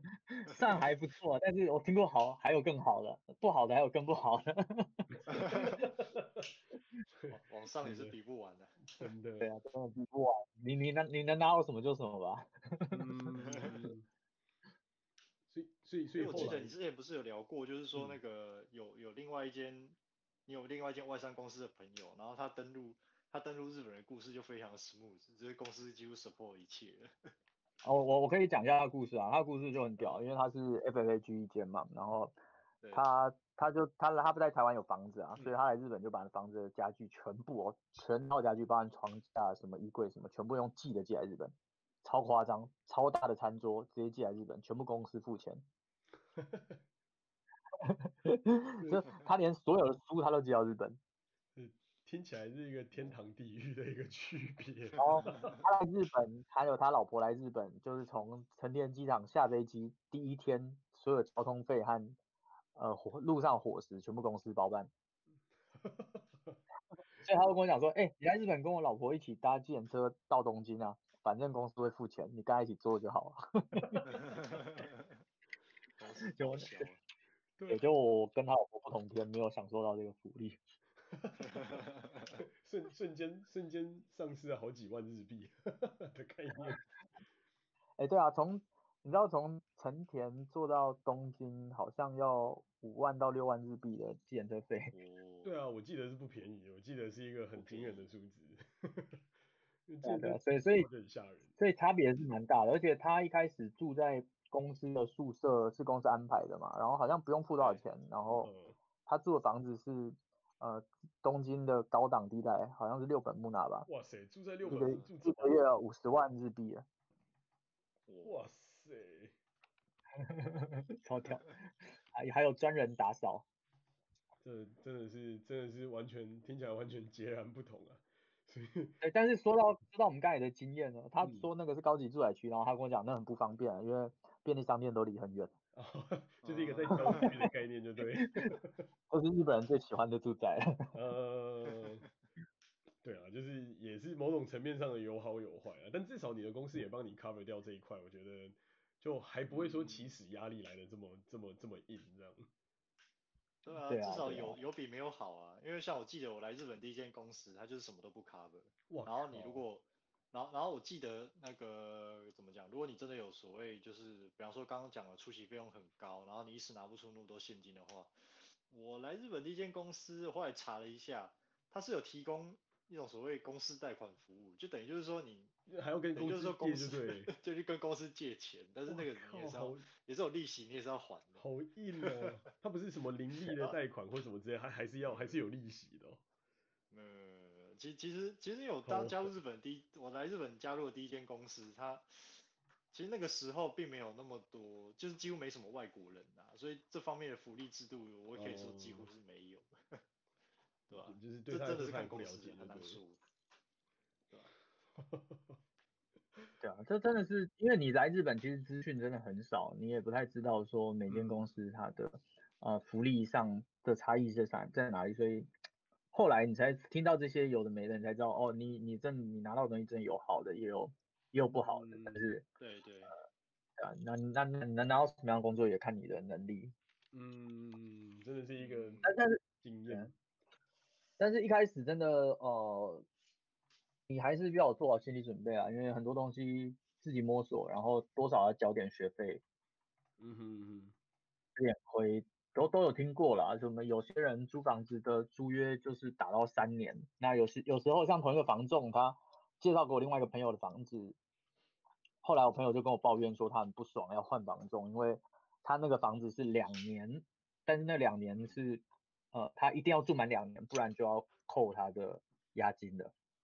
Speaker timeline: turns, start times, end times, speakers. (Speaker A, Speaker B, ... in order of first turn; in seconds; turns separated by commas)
Speaker A: 0.3-5.1, Speaker B: 0.6-0.8, Speaker C: 5.1-6.5, Speaker B: 5.3-5.8, Speaker C: 7.2-8.2, Speaker B: 7.3-9.1, Speaker C: 8.9-9.5, Speaker A: 9.4-13.0, Speaker C: 12.9-14.1, Speaker B: 13.5-13.7, Speaker C: 15.5-16.8, Speaker B: 16.1-20.0, Speaker B: 20.5-27.3, Speaker A: 27.8-32.4, Speaker A: 32.9-45.6, Speaker C: 46.4-46.8, Speaker A: 47.8-51.0, Speaker C: 51.5-55.6, Speaker A: 55.0-62.2, Speaker B: 55.2-55.6, Speaker A: 62.8-64.9, Speaker C: 65.8-66.6, Speaker A: 67.2-74.0, Speaker C: 73.8-74.4, Speaker B: 74.1-75.1, Speaker B: 76.0-77.0, Speaker A: 76.3-76.8, Speaker C: 77.6-77.9, Speaker A: 77.7-80.6, Speaker C: 81.1-81.7, Speaker B: 81.5-82.4, Speaker C: 82.4-86.8, Speaker A: 88.0-94.9, Speaker B: 94.9-95.5, Speaker C: 95.4-99.2, Speaker B: 97.5-98.1, Speaker C: 99.9-101.5, Speaker A: 100.0-100.9, Speaker A: 101.6-108.5, Speaker C: 107.6-107.8, Speaker C: 108.4-108.8, Speaker A: 109.1-113.9, Speaker C: 113.9-115.6, Speaker A: 114.7-116.8, Speaker B: 114.7-115.1, Speaker B: 118.1-118.4, Speaker C: 118.2-119.3, Speaker A: 120.2-121.5, Speaker A: 122.1-123.5, Speaker C: 124.4-129.0, Speaker A: 129.0-135.5, Speaker C: 131.2-131.5, Speaker C: 135.7-138.9, Speaker B: 136.4-137.3, Speaker A: 137.1-137.3, Speaker A: 138.2-138.5, Speaker A: 139.1-140.8, Speaker C: 140.9-142.1, Speaker C: 143.0-152.5, Speaker B: 149.5-150.1, Speaker B: 153.7-175.5, Speaker A: 153.9-154.6, Speaker C: 158.9-159.6, Speaker C: 175.7-177.3, Speaker B: 176.2-181.4, Speaker C: 178.9-179.9, Speaker C: 181.4-186.2, Speaker B: 182.0-182.4, Speaker B: 183.4-183.8, Speaker B: 185.1-185.4, Speaker B: 186.9-200.0, Speaker C: 188.9-189.3, Speaker C: 198.4-199.1, Speaker B: 200.9-203.2, Speaker C: 200.9-203.0, Speaker C: 205.0-205.6, Speaker A: 206.6-215.5, Speaker C: 211.1-211.4, Speaker A: 216.1-222.4, Speaker C: 221.5-222.3, Speaker B: 222.6-223.2, Speaker A: 223.8-226.7, Speaker C: 227.1-230.2, Speaker B: 228.6-229.1, Speaker A: 229.0-230.1, Speaker A: 231.2-233.1, Speaker A: 234.1-239.4, Speaker C: 240.2-240.9, Speaker A: 241.6-251.2, Speaker A: 252.2-258.8, Speaker A: 259.3-263.1